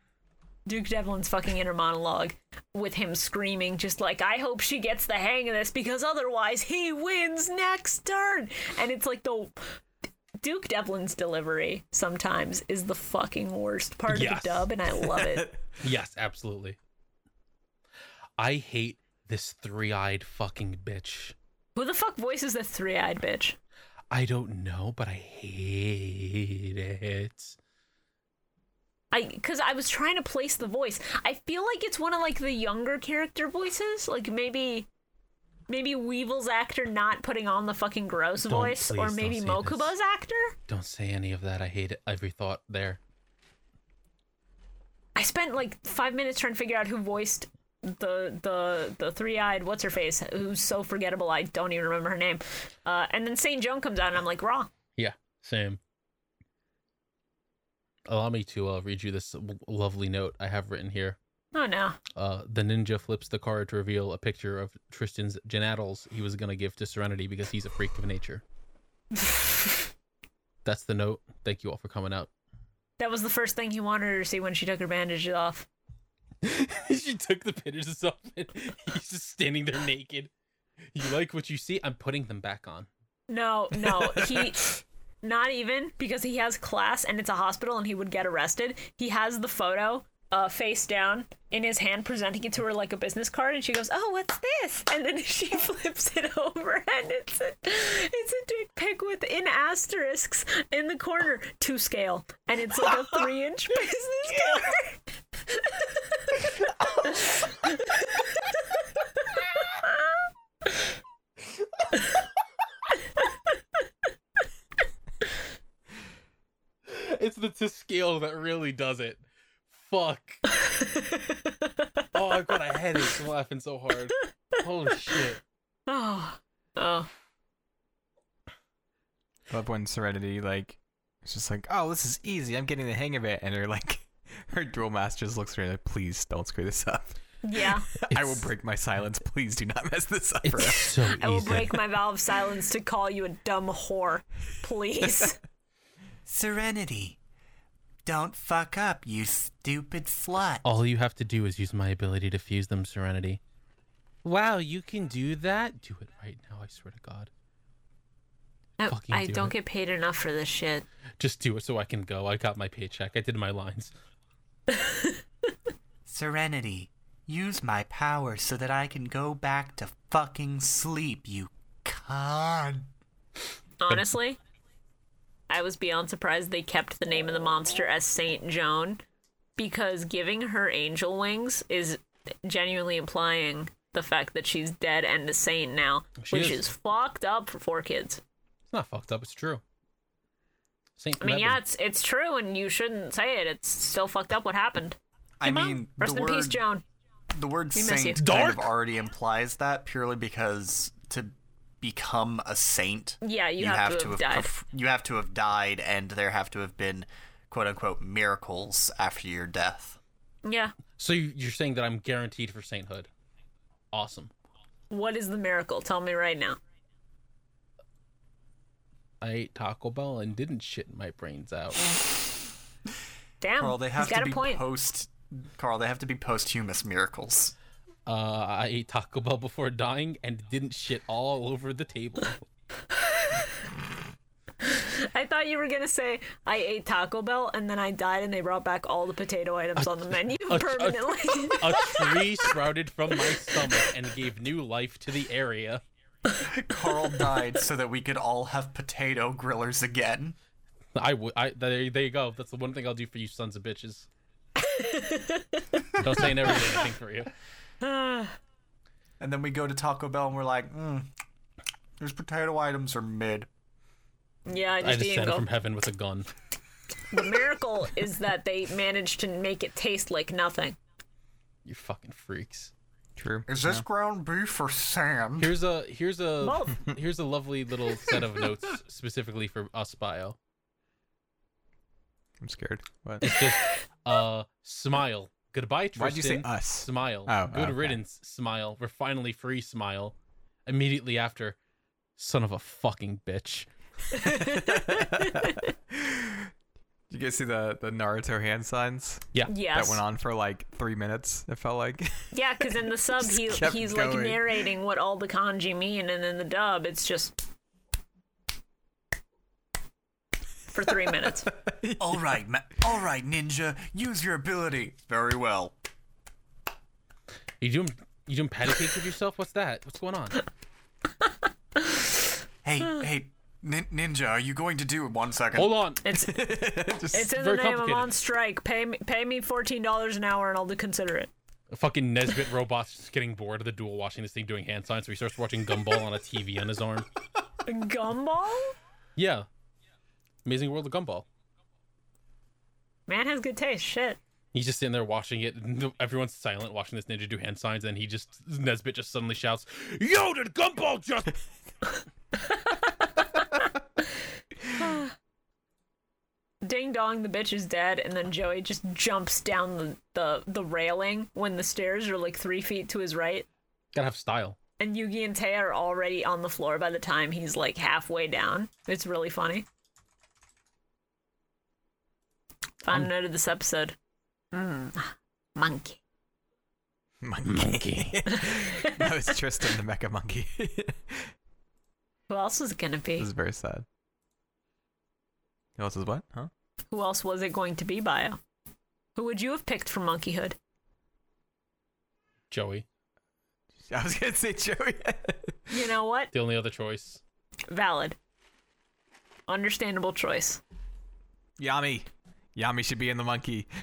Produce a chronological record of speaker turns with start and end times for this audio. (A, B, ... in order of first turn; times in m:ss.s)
0:00.7-0:09.8 A
0:10.4-0:15.5 A
0:14.1-0:14.7 B
0:15.2-0:15.6 C
0:15.8-0:16.8 B
0:18.4-0:21.4 B
0:21.8-0:23.6 A
0:24.1-0:27.6 B
0:29.1-0:34.9 A
0:35.7-0:40.6 A
0:38.4-0:39.9 B
0:40.7-0:43.0 B
0:45.2-0:54.7 A
0:55.0-0:55.8 B
0:58.1-1:01.2 B
1:01.5-1:02.0 A
1:02.2-1:08.4 B
1:10.6-1:12.3 B
1:13.0-1:15.7 A
1:16.4-1:20.3 B
1:20.9-1:22.9 B
1:23.3-1:46.5 A
1:44.3-1:44.7 B
1:47.0-1:48.6 A
1:49.6-1:49.9 A
1:56.9-2:00.4 B
2:00.6-2:01.7 A
2:02.1-2:05.4 B
2:05.9-2:07.1 A
2:09.5-2:20.9 C
2:17.4-2:17.9 A
2:18.1-2:18.4 B
2:20.4-2:21.8 B
2:20.6-2:25.4 A
2:26.3-2:27.2 D
2:28.0-2:30.6 D
2:30.6-2:33.4 B
2:34.2-2:37.3 B
2:38.8-2:40.9 A
2:38.9-2:39.5 B
2:41.2-2:43.9 B
2:44.7-2:45.2 A
2:46.1-2:52.9 D
2:53.8-2:54.4 A
2:55.5-2:59.0 A
2:59.6-3:08.2 A
3:06.2-3:06.6 B
3:08.7-3:09.6 B
3:11.0-3:11.6 B
3:11.2-3:16.8 A
3:15.4-3:16.6 D
3:17.3-3:30.0 D
3:17.7-3:18.3 A
3:18.2-3:18.7 B
3:23.2-3:24.5 A
3:30.4-3:30.7 A
3:31.0-3:33.1 B
3:33.9-3:34.3 B
3:34.9-3:36.6 A
3:39.2-3:41.9 B
3:43.4-3:44.6 A
3:43.6-3:47.5 D
3:48.1-3:52.4 B
3:53.0-3:53.6 A
3:54.7-4:02.2 A
4:00.4-4:05.8 B
4:06.5-4:10.4 D
4:11.0-4:14.1 B
4:14.6-4:15.8 A
4:16.0-4:17.3 B
4:17.8-4:18.4 A
4:19.2-4:21.1 D
4:22.0-4:23.5 D
4:24.5-4:25.4 A
4:24.8-4:26.3 B
4:27.1-4:30.8 A
4:31.6-4:32.7 B
4:33.2-4:33.8 C
4:33.5-4:35.5 D
4:35.4-4:40.4 B
4:36.4-4:36.9 A
4:42.4-4:43.3 C
4:43.2-4:50.2 B
4:46.0-4:48.0 C
4:50.7-4:51.6 B
4:52.2-4:53.7 B
4:54.1-4:55.7 A
4:54.2-4:56.5 C
4:57.1-5:04.7 C
4:59.5-5:00.0 A
5:02.3-5:07.4 A
5:10.7-5:11.5 A
5:11.5-5:12.4 C
5:12.0-5:15.8 D
5:17.6-5:20.4 B
5:22.6-5:25.8 D
5:25.6-5:26.0 B
5:26.0-5:26.4 A
5:26.1-5:27.4 C
5:27.1-5:31.3 A
5:27.2-5:28.1 B
5:31.7-5:37.1 B
5:37.6-5:38.8 A
5:39.2-5:39.5 B
5:40.4-5:41.2 B
5:43.1-5:44.2 A
5:44.5-5:51.4 B
5:52.5-5:53.7 A
5:54.8-5:55.1 A
5:56.6-6:03.5 A
6:03.9-6:04.6 B
6:04.8-6:09.7 A
6:12.8-6:14.0 A
6:14.5-6:16.0 A
6:17.2-6:21.3 C
6:17.5-6:18.2 B
6:18.3-6:19.1 A
6:22.3-6:23.3 A
6:23.2-6:23.9 C
6:25.8-6:26.5 C
6:26.9-6:28.4 A
6:29.2-6:30.6 A
6:32.5-6:32.8 B
6:33.9-6:35.6 C
6:35.7-6:36.3 A
6:36.3-6:37.2 B
6:37.7-6:38.2 A
6:39.5-6:40.6 A
6:41.6-6:43.7 C